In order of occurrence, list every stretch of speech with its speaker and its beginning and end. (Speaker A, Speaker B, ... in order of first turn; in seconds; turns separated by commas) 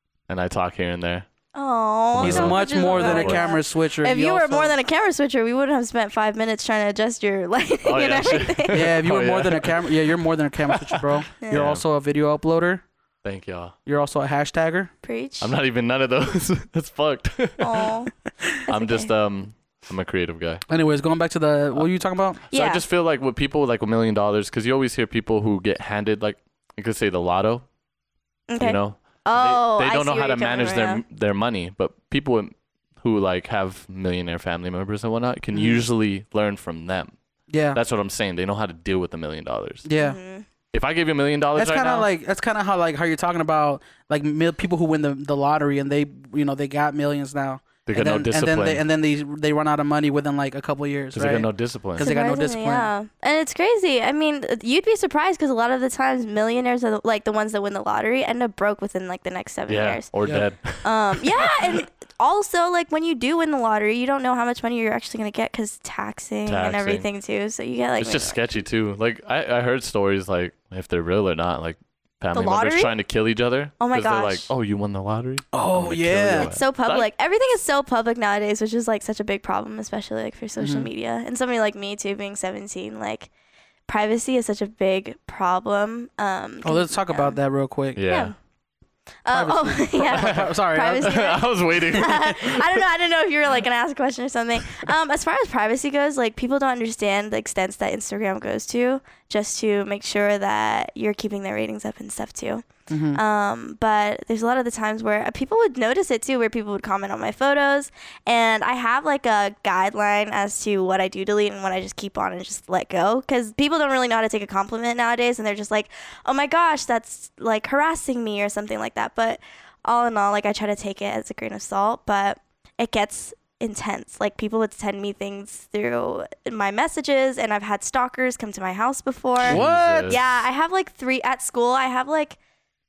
Speaker A: 0.3-1.3, Speaker B: 1.6-8.9, Speaker A: 2.1-3.5, Speaker C: 2.2-4.8, Speaker A: 7.8-10.1, Speaker C: 8.7-12.8, Speaker A: 10.7-11.8, Speaker A: 13.2-13.7, Speaker C: 13.9-14.9, Speaker B: 15.0-15.5, Speaker A: 15.4-17.9, Speaker B: 17.6-18.1, Speaker B: 18.7-19.1, Speaker A: 18.7-20.6, Speaker C: 20.7-22.4, Speaker A: 22.5-27.7, Speaker B: 22.5-22.8, Speaker B: 28.5-31.0, Speaker A: 28.6-37.1, Speaker C: 35.5-35.9, Speaker C: 37.5-37.8, Speaker A: 37.7-39.9, Speaker C: 39.9-40.2, Speaker B: 40.0-40.5, Speaker A: 40.7-42.1, Speaker C: 41.5-52.9, Speaker A: 47.9-48.8, Speaker A: 51.1-52.1, Speaker B: 52.0-60.1, Speaker A: 59.7-61.8, Speaker B: 60.8-68.4, Speaker A: 66.5-67.1, Speaker A: 68.0-77.1, Speaker B: 72.3-72.9, Speaker B: 73.8-74.5, Speaker C: 75.5-76.5, Speaker B: 76.3-83.3, Speaker C: 80.6-80.9, Speaker B: 83.9-87.4, Speaker C: 86.6-88.0, Speaker A: 88.0-88.3, Speaker B: 88.1-88.3, Speaker B: 89.2-132.4, Speaker C: 89.3-91.2, Speaker A: 90.1-92.8, Speaker C: 102.9-103.2, Speaker C: 129.4-130.2, Speaker A: 129.4-130.4